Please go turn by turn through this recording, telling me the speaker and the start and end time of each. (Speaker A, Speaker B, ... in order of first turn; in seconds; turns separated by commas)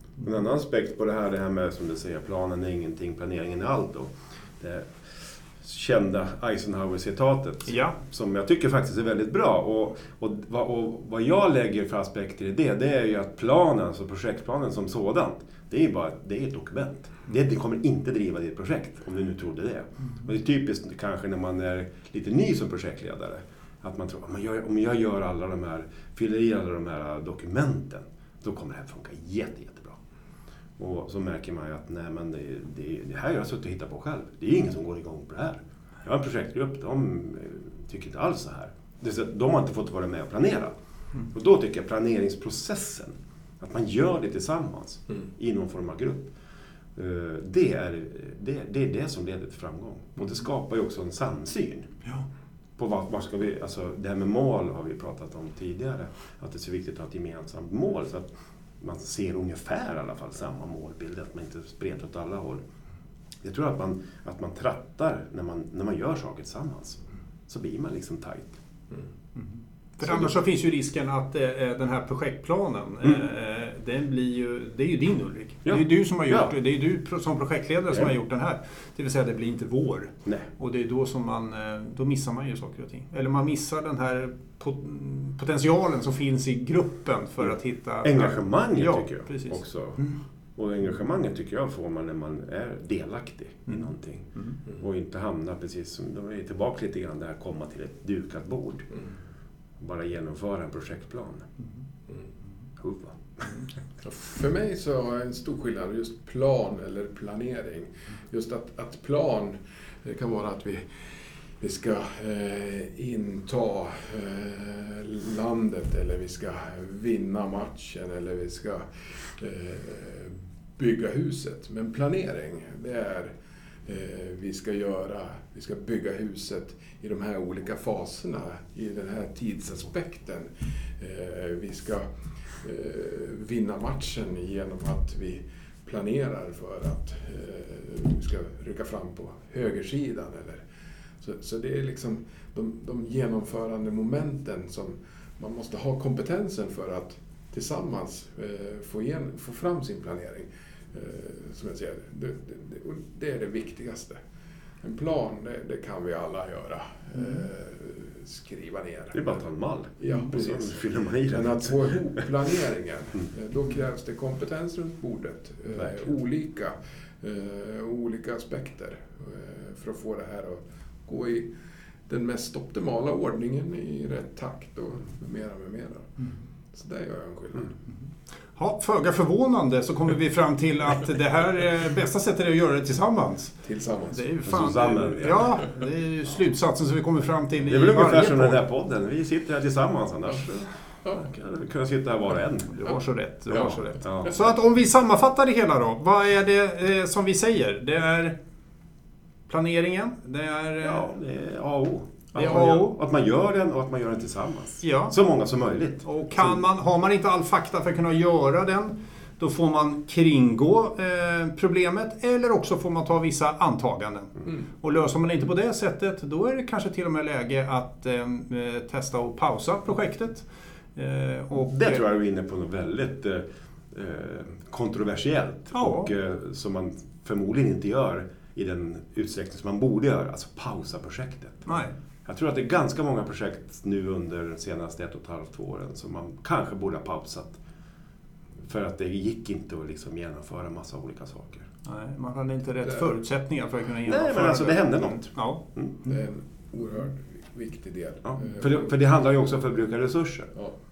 Speaker A: 0.2-30.0, Speaker B: 7.7-8.0, Speaker A: 30.8-46.3, Speaker A: 47.0-52.0, Speaker A: 52.8-58.3, Speaker A: 58.8-62.6, Speaker A: 63.4-68.6, Speaker B: 69.4-90.2, Speaker A: 70.0-70.4, Speaker A: 75.7-76.5, Speaker A: 88.0-90.0, Speaker A: 90.6-98.9, Speaker A: 99.8-101.5, Speaker A: 102.8-103.6, Speaker C: 104.0-110.8, Speaker C: 111.6-118.9, Speaker C: 119.4-123.3, Speaker C: 123.9-132.1, Speaker C: 132.6-140.7, Speaker C: 141.2-154.2, Speaker C: 154.8-159.5, Speaker A: 159.1-162.0, Speaker C: 160.0-171.5, Speaker A: 165.7-166.1, Speaker C: 172.1-176.1, Speaker C: 176.7-177.8, Speaker B: 178.6-183.5, Speaker C: 183.6-184.3, Speaker B: 184.1-188.7, Speaker A: 184.4-185.5, Speaker A: 187.7-192.8, Speaker B: 192.7-198.3, Speaker C: 193.5-193.8, Speaker A: 194.0-194.3, Speaker B: 199.5-201.1, Speaker A: 200.8-206.6, Speaker B: 202.3-203.0, Speaker B: 204.8-205.2, Speaker B: 206.0-222.0, Speaker A: 221.6-237.6, Speaker B: 225.7-226.1, Speaker B: 231.7-231.9, Speaker A: 238.6-241.7, Speaker B: 241.8-245.6, Speaker C: 242.8-243.1, Speaker A: 244.1-246.0, Speaker C: 246.1-248.9, Speaker A: 248.2-250.6